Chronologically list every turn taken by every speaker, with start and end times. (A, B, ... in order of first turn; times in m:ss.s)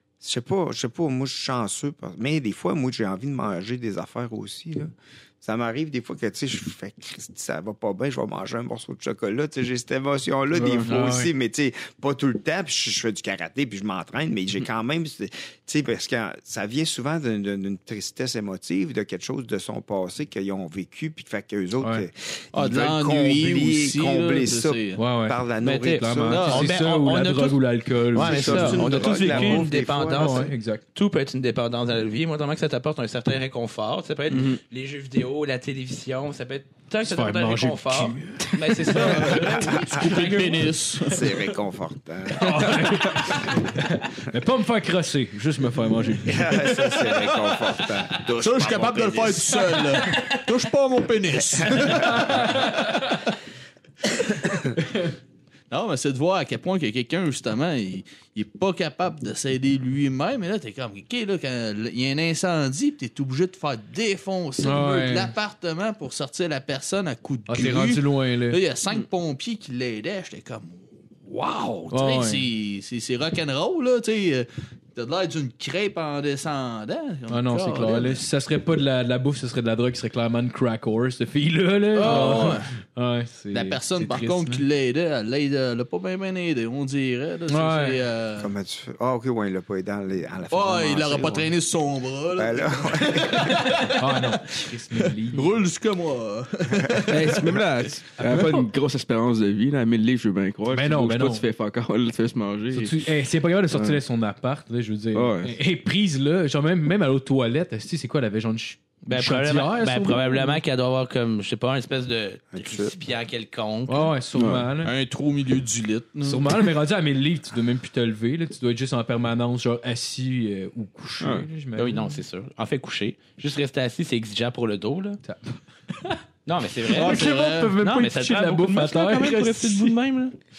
0:00.2-0:26.6 A
0:10.5-0:10.9 B
0:10.8-0:11.3 C
0:21.8-0:22.0 C
0:22.5-0:25.0 D
0:25.0-0:25.4 C
0:25.6-0:40.7 E
0:26.0-0:30.8 C
0:26.3-0:26.7 D
0:28.2-0:30.5 A
0:34.3-0:34.6 B
0:37.0-0:39.6 C
0:38.9-0:41.5 D
0:41.0-0:43.3 A
0:42.3-0:46.7 C
0:46.2-0:49.8 A
0:48.4-0:52.5 D
0:50.0-0:50.4 E
0:51.6-0:52.2 A
0:51.9-0:53.2 C
0:54.8-0:55.0 C
0:55.7-1:10.8 D
1:04.6-1:05.3 C
1:07.5-1:08.6 C
1:11.5-1:18.2 D
1:11.9-1:12.4 C
1:17.3-1:24.6 C
1:21.9-1:22.7 D
1:23.5-1:28.5 D
1:27.5-1:28.0 C
1:28.4-1:31.5 A
1:30.5-1:34.4 D
1:32.3-1:33.8 A
1:33.4-1:35.6 C
1:35.2-1:37.5 D
1:36.8-1:37.1 A
1:37.1-1:43.1 B
1:38.1-1:38.7 C
1:40.7-1:41.4 C
1:42.7-1:50.6 C
1:45.1-1:45.6 B
1:49.0-1:54.1 E
1:52.5-1:52.9 A
1:53.9-1:54.9 C
1:54.3-1:54.7 B
1:54.8-1:56.5 D
1:56.2-2:02.2 C
2:01.2-2:01.5 B
2:01.8-2:05.2 E
2:05.2-2:06.2 C
2:06.4-2:07.2 E
2:06.9-2:10.0 C
2:06.9-2:07.8 D
2:07.8-2:10.4 E